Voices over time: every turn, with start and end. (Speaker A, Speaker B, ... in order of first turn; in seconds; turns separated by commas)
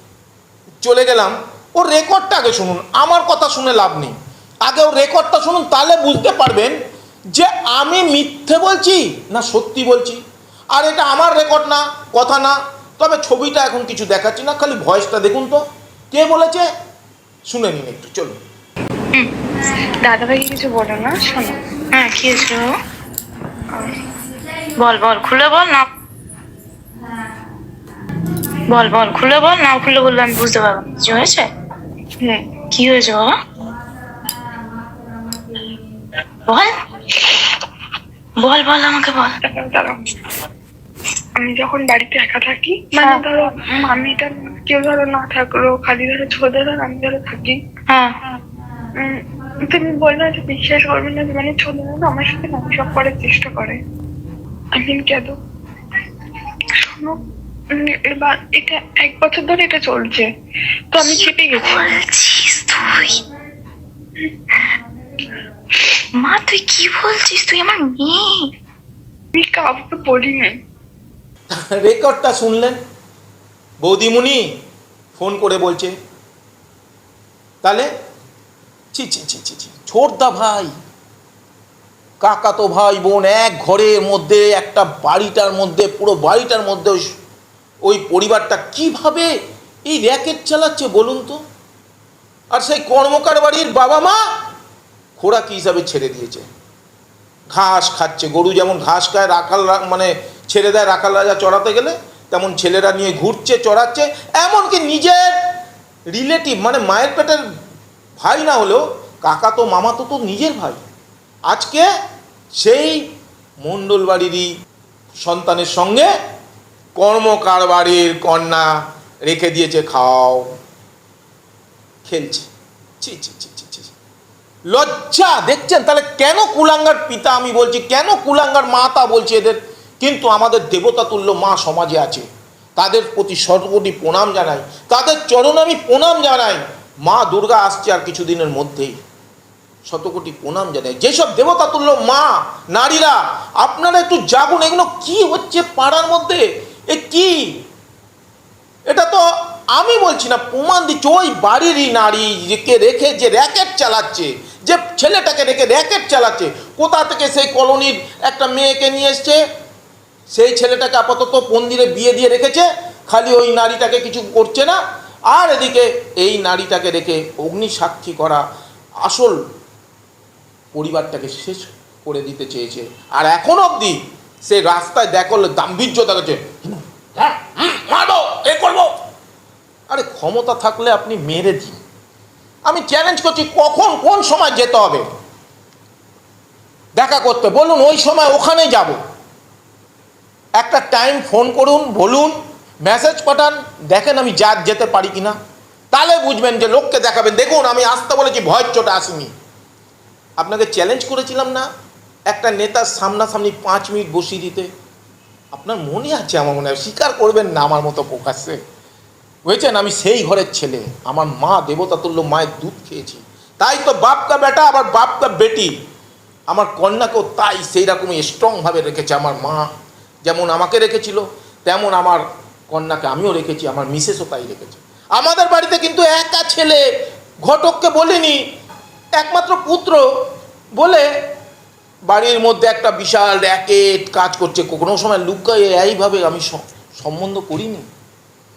Speaker A: 0.8-6.8, Speaker A: 7.3-10.2, Speaker A: 10.7-15.6, Speaker A: 16.1-16.7, Speaker A: 17.5-18.4, Speaker B: 20.0-21.6, Speaker C: 21.9-22.8, Speaker B: 23.7-24.0, Speaker C: 24.8-25.9, Speaker C: 28.7-31.5, Speaker B: 32.2-32.6, Speaker C: 32.7-33.4, Speaker C: 36.5-36.7, Speaker C: 38.4-39.4, Speaker B: 39.4-40.0, Speaker B: 41.4-47.6, Speaker C: 47.9-48.1, Speaker B: 49.0-53.8, Speaker B: 54.8-55.4, Speaker B: 56.8-57.2, Speaker B: 57.7-60.3, Speaker B: 60.9-62.0, Speaker C: 61.0-63.2, Speaker C: 66.2-68.5, Speaker B: 69.3-70.5, Speaker A: 71.5-72.8, Speaker A: 73.8-74.5, Speaker A: 75.2-75.9, Speaker A: 77.6-77.9, Speaker A: 78.9-80.7, Speaker A: 82.2-87.0, Speaker A: 87.8-89.3, Speaker A: 89.9-91.4, Speaker A: 92.5-94.2, Speaker A: 95.2-96.5, Speaker A: 97.5-105.3, Speaker A: 106.1-107.4, Speaker A: 108.2-110.8, Speaker A: 111.5-111.9, Speaker A: 112.6-113.0, Speaker A: 113.6-114.5, Speaker A: 115.2-116.1, Speaker A: 117.0-118.7, Speaker A: 119.3-120.5, Speaker A: 122.0-122.5, Speaker A: 123.0-123.9, Speaker A: 124.7-132.3, Speaker A: 132.8-139.0, Speaker A: 139.9-147.6, Speaker A: 148.9-159.4, Speaker A: 160.3-164.8, Speaker A: 165.3-168.4, Speaker A: 169.0-169.4, Speaker A: 170.7-178.9, Speaker A: 179.9-181.8, Speaker A: 182.7-185.1, Speaker A: 187.0-189.0, Speaker A: 190.6-195.4, Speaker A: 195.9-199.3, Speaker A: 200.4-201.7, Speaker A: 202.3-204.7, Speaker A: 205.5-208.6, Speaker A: 209.5-215.7, Speaker A: 216.5-219.7, Speaker A: 220.2-226.8, Speaker A: 227.4-228.4, Speaker A: 229.2-230.0, Speaker A: 230.8-231.1, Speaker A: 232.1-237.9